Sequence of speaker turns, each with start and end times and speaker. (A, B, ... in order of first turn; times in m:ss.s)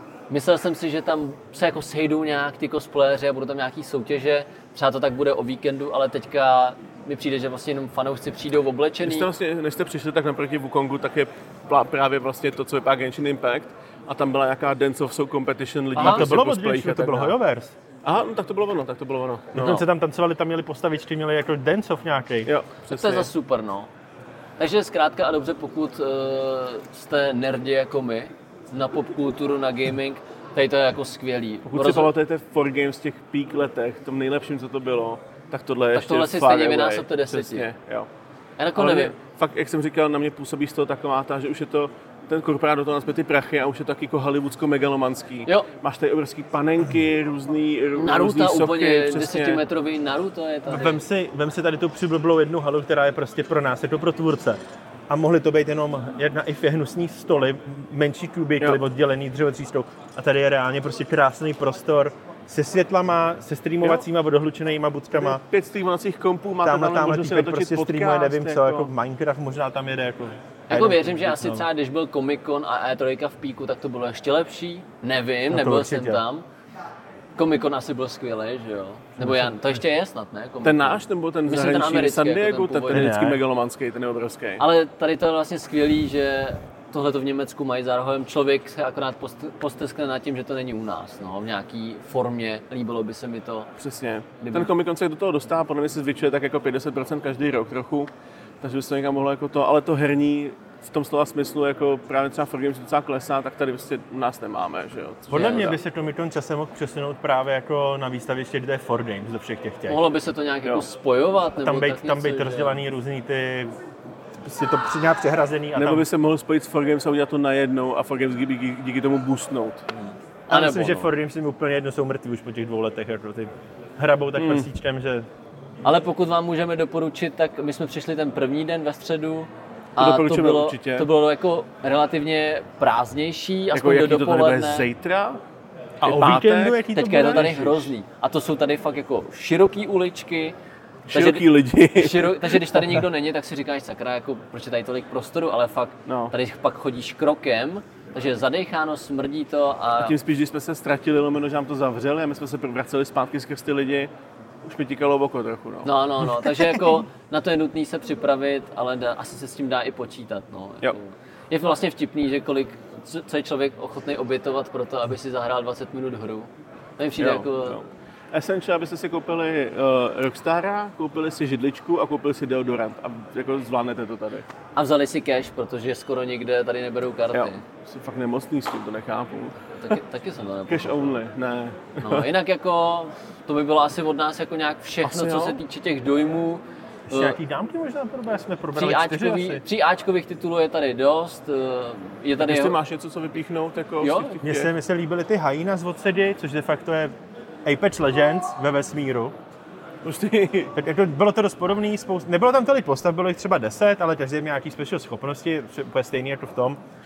0:00.3-0:09.3 A
0:09.0-0:17.3 B
0:16.0-0:17.7 C
0:16.0-0:16.3 A
0:18.0-0:19.8 B
0:19.5-0:22.5 C
0:22.4-0:23.3 B
0:22.9-0:23.9 A
0:24.6-0:32.1 A
0:31.7-0:38.1 B
0:35.9-0:37.6 A
0:38.6-0:39.1 A
0:38.8-0:49.6 B
0:48.0-0:51.0 A
0:50.7-0:54.6 C
0:55.1-1:05.4 C
1:05.2-1:08.9 B
1:06.6-1:11.6 C
1:10.7-1:16.4 A
1:15.5-1:16.2 C
1:17.4-1:23.2 A
1:19.2-1:19.6 C
1:20.6-1:24.6 B
1:22.9-1:23.4 C
1:24.6-1:33.7 A
1:33.8-1:38.1 B
1:34.4-1:34.7 A
1:38.6-1:45.8 B
1:45.3-1:50.0 C
1:45.3-1:45.7 A
1:49.9-1:52.8 A
1:51.6-1:53.8 C
1:54.3-1:56.0 C
1:55.7-1:59.8 B
1:59.9-2:01.1 A
2:00.5-2:05.3 C
2:04.4-2:04.7 B
2:05.8-2:14.8 A
2:10.0-2:11.1 B
2:13.7-2:15.4 B
2:16.0-2:16.8 B
2:16.0-2:17.9 C
2:16.1-2:20.5 A
2:21.1-2:22.9 B
2:21.1-2:30.2 A
2:26.0-2:26.3 B
2:30.0-2:34.1 B
2:34.6-2:35.9 B
2:35.8-2:47.8 A
2:47.2-2:54.4 B
2:54.8-2:57.6 A
2:57.3-2:59.6 B
2:59.8-3:01.2 A
3:00.7-3:02.3 B
3:02.0-3:07.4 A
3:05.0-3:05.6 B
3:07.1-3:09.6 C
3:08.8-3:12.8 A
3:12.4-3:14.7 B
3:14.0-3:14.4 A
3:14.4-3:17.1 C
3:17.6-3:19.3 C
3:20.0-3:20.7 B
3:20.8-3:26.8 C